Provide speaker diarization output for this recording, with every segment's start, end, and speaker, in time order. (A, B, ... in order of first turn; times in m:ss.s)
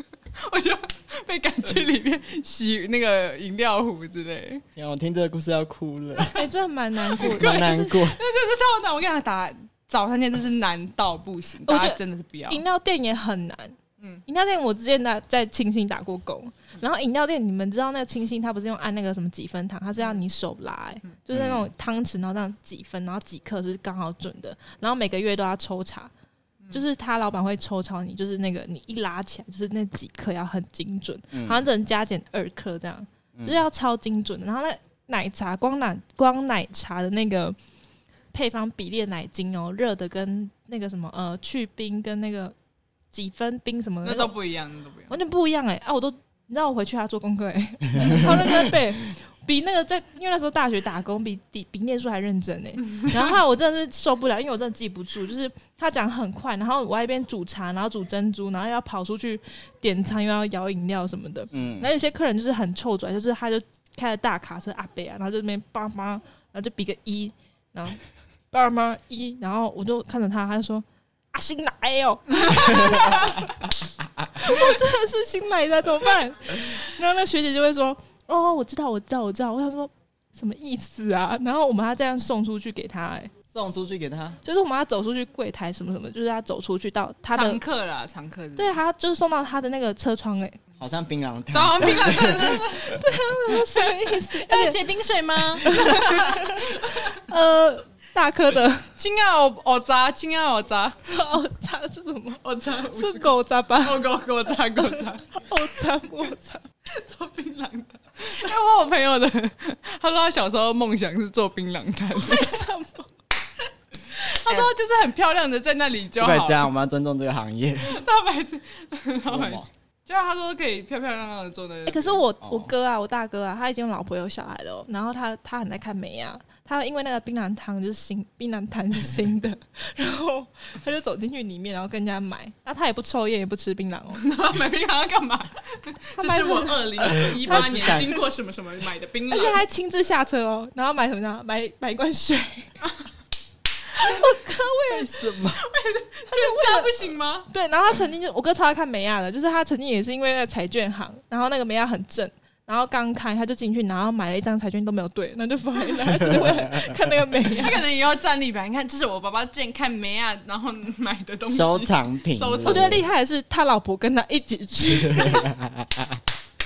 0:00.3-0:04.6 A
0:04.8-0:06.4 B
0:06.3-0:08.0 C
0:07.2-0:12.6 A
0:07.2-0:08.2 B
0:11.6-0:26.1 C
0:21.3-0:21.7 B
0:26.7-0:37.6 C
0:31.3-0:31.6 B
0:38.3-0:42.5 C
0:43.1-0:44.3 C
0:44.0-0:45.1 A
0:45.1-1:08.0 C
0:48.0-0:48.3 B
1:01.5-1:01.9 B
1:08.5-1:13.6 C
1:14.3-1:23.3 C
1:23.5-1:24.4 B
1:24.4-1:27.6 C
1:27.3-1:28.8 A
1:28.6-1:30.6 C
1:30.8-1:32.9 B
1:31.5-1:33.0 A
1:32.1-1:34.8 C
1:33.5-1:37.2 A
1:35.6-1:38.9 C
1:39.0-1:41.0 A
1:41.1-1:46.6 C
1:42.4-1:45.3 A
1:46.9-1:52.6 A
1:52.2-1:53.1 C
1:54.1-1:56.7 A
1:56.2-1:58.0 B
1:57.8-2:02.2 A
1:59.3-1:59.7 B
2:01.8-2:14.2 C
2:02.4-2:02.7 B
2:14.1-2:19.6 A
2:16.2-2:18.1 C
2:17.0-2:18.2 B
2:19.3-2:22.8 C
2:23.9-2:25.1 C
2:24.9-2:25.6 B
2:25.5-2:27.5 A
2:26.3-2:37.8 C
2:36.0-2:37.1 B
2:37.5-2:43.0 A
2:41.5-2:43.0 B
2:42.6-2:45.5 C
2:44.8-2:46.2 B